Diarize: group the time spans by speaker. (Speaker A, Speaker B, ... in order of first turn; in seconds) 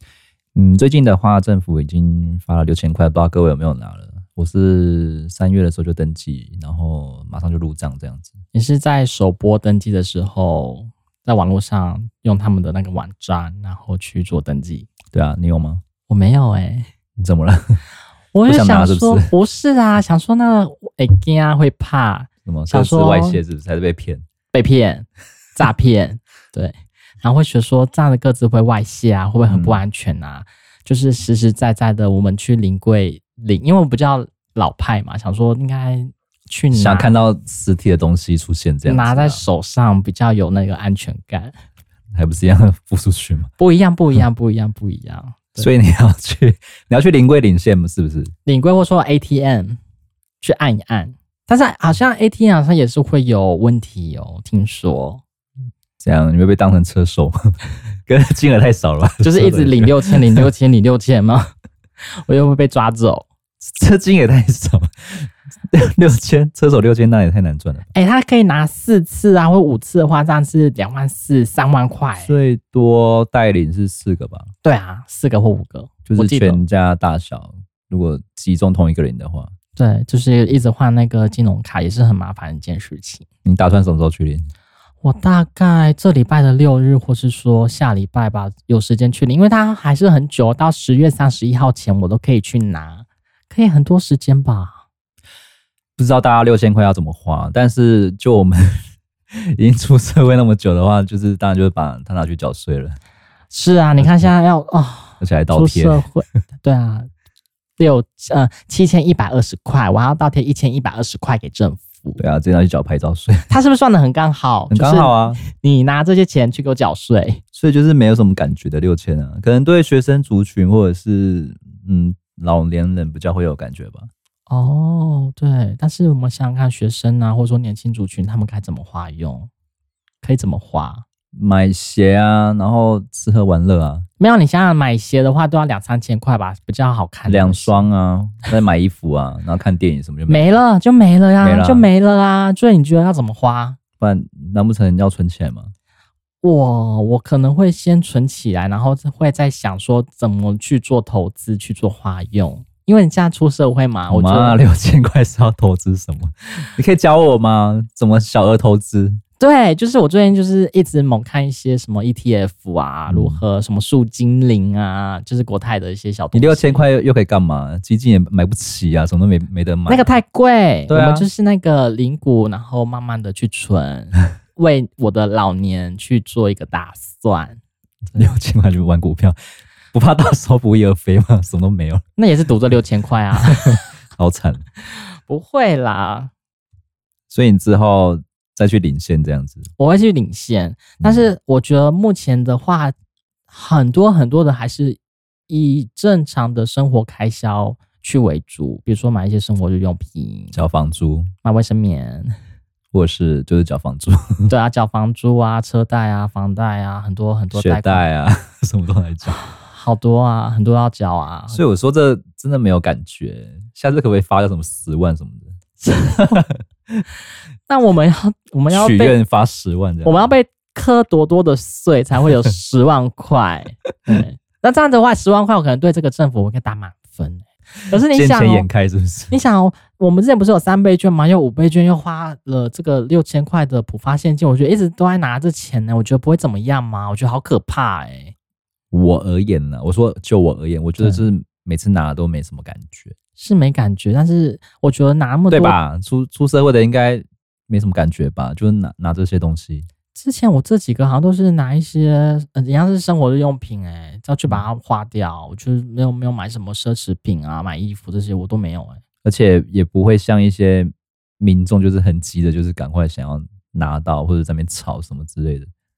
Speaker A: 0.6-8.4, 15.1-15.8, 17.2-17.8, 18.5-19.3, 22.4-24.2, 29.5-29.8, 36.7-39.4, 42.1-43.5, 45.6-48.3, 56.0-57.5, 58.1-60.4, 63.6-67.9, 72.2-74.5, 76.1-79.5, 83.5-84.5, 96.0-103.0, 104.0-104.3, 105.2-106.0, 112.2-113.5, 114.7-115.4, 117.5-124.1, 131.3-134.1, 137.3-140.6, 141.4-141.9, 144.0-145.7, 154.1-159.2, 163.1-163.4, 166.3-170.1, 170.9-171.3, 178.1-179.4, 179.9-182.0, 183.5-184.6, 187.3-189.7, 191.0-191.3, 200.5-201.3, 202.9-204.5, 207.6-209.4, 211.5-215.6, 216.1-217.0, 218.7-220.3, 228.1-229.3, 238.9-243.1, 245.5-249.9, 259.2-265.7
Speaker B: 8.5-14.9, 16.1-16.9, 18.3-23.4, 24.5-37.1, 38.9-41.5, 43.6-45.7, 48.5-49.8, 50.4-55.2, 59.2-61.5, 62.2-63.3, 67.9-72.3, 74.6-76.6, 79.8-83.2, 85.0-94.8, 103.5-107.1, 107.8-112.2, 113.5-117.4, 124.5-129.5, 130.2-131.0, 134.2-137.8, 140.3-143.8, 146.4-154.6, 159.4-166.8, 169.9-177.6, 182.2-183.8, 184.9-186.3, 189.8-192.9, 193.5-200.6, 201.4-202.3, 204.5-208.0, 209.3-211.6, 215.8-216.4, 217.7-219.1, 220.0-228.7, 229.3-238.3, 241.0-241.2, 243.4-245.8, 250.1-259.0